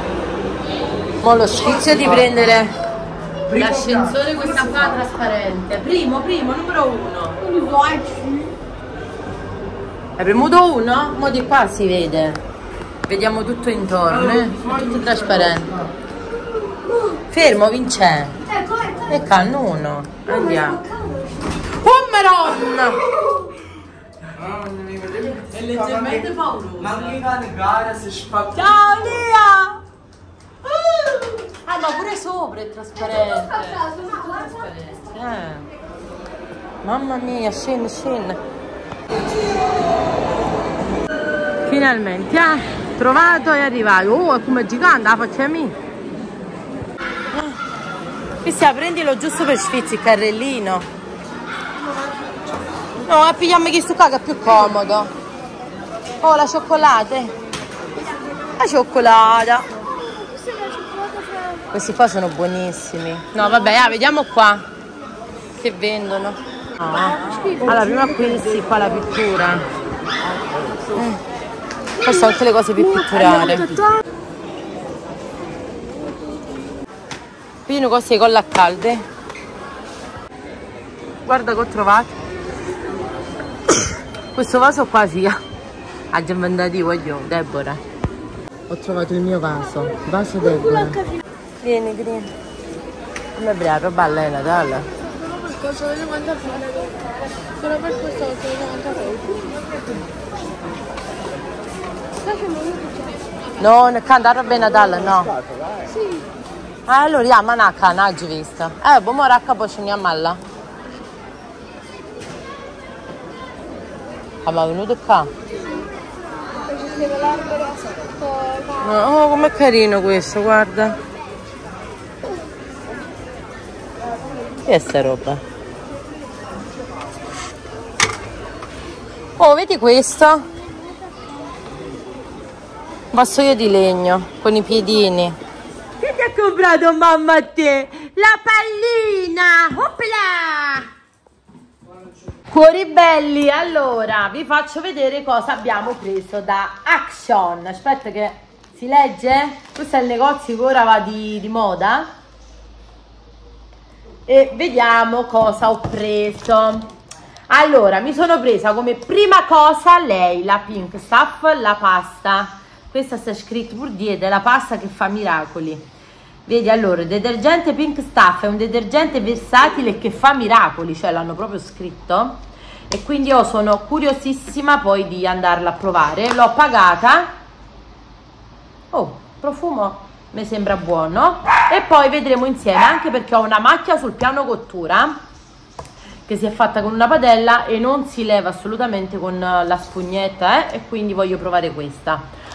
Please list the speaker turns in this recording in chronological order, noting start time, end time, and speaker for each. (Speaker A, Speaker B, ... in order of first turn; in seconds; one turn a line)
Speaker A: 1.2-2.7
Speaker A: 3.5-7.5
Speaker B: 7.4-8.5
Speaker A: 10.2-12.4
Speaker A: 13.1-15.8
Speaker A: 17.2-18.4
Speaker B: 18.5-19.1
Speaker A: 19.0-20.9
Speaker B: 20.7-21.4
Speaker A: 21.6-23.5
Speaker C: 24.4-25.0
Speaker A: 25.0-27.4
Speaker C: 27.1-28.4
Speaker A: 28.4-29.8
Speaker A: 30.6-35.7
Speaker A: 36.8-38.4
Speaker A: 41.6-45.7
Speaker A: 47.3-47.6
Speaker A: 48.4-50.9
Speaker A: 53.0-55.1
Speaker A: 56.2-57.3
Speaker A: 58.4-59.7
Speaker B: 60.1-61.6
Speaker A: 61.6-64.7
Speaker A: 65.5-69.7
Speaker C: 70.4-70.7
Speaker A: 70.9-71.2
Speaker A: 72.0-73.9
Speaker A: 77.7-79.0
Speaker A: 81.2-82.1
Speaker A: 84.3-85.4
Speaker A: 86.1-87.8
Speaker A: 88.7-92.3
Speaker A: 93.3-99.5
Speaker B: 102.2-103.2
Speaker A: 103.6-105.4
Speaker B: 105.9-106.2
Speaker A: 106.8-110.4
Speaker A: 114.4-115.3
Speaker B: 116.5-118.7
Speaker A: 118.7-121.0
Speaker A: 124.6-125.4
Speaker A: 129.4-130.6
Speaker A: 133.1-135.4
Speaker A: 136.0-140.9
Speaker A: 142.5-152.1
Speaker A: 154.3-156.9
Speaker A: 157.5-165.8
Speaker A: 166.5-177.3
Speaker A: 178.9-185.2
Speaker A: 186.3-192.3